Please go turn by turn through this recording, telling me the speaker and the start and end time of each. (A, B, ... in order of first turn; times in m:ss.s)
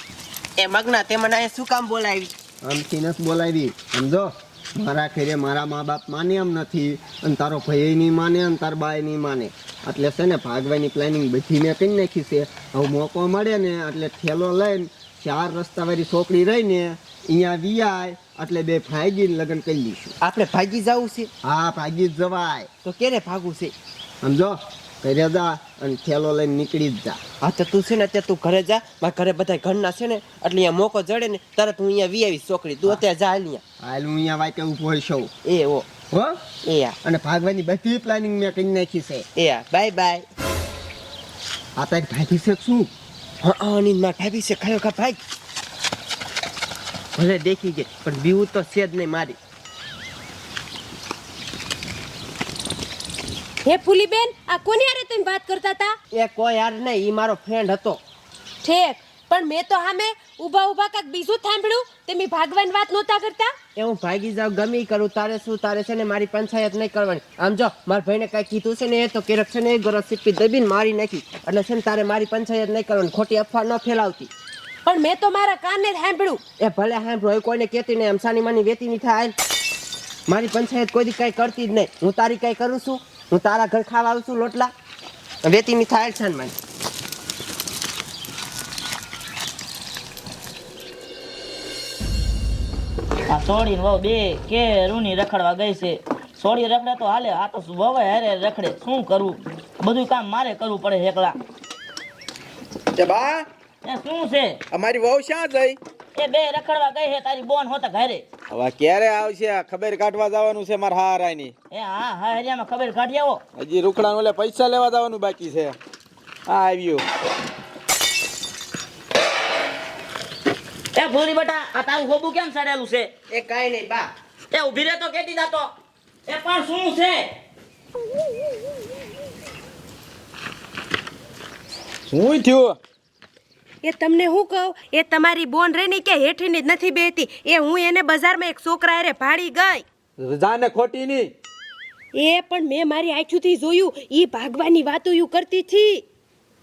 0:00.6-0:02.3 A
0:02.6-0:20.1 B
0:20.2-0:21.3 A
0:21.4-0:22.7 B
0:22.8-0:23.7 A
0:24.2-0:27.2 B
0:27.4-0:33.6 A
0:33.8-0:35.3 B
0:35.4-0:37.0 A
0:37.0-0:39.2 B
0:39.4-0:40.2 A
0:41.8-0:42.9 B
0:43.4-0:45.2 A
0:47.2-0:49.4 A
0:53.6-0:55.9 C
0:56.1-0:58.0 A
0:58.6-1:03.5 C
1:03.8-1:14.3 A
1:14.8-1:16.4 C
1:16.6-1:19.3 A
1:20.3-1:24.7 A
1:25.4-1:26.5 A
1:33.3-1:41.4 D
1:43.0-1:43.4 E
1:43.8-1:44.5 D
1:44.7-1:45.8 E
1:46.2-1:48.2 D
1:48.5-1:51.5 E
1:51.7-1:53.4 D
1:53.6-1:55.8 E
1:56.5-1:57.0 E
2:00.9-2:03.1 D
2:03.3-2:04.1 A
2:04.5-2:05.7 D
2:06.3-2:07.2 D
2:12.1-2:12.8 E
2:13.8-2:19.8 C
2:20.2-2:21.3 E
2:22.1-2:26.0 C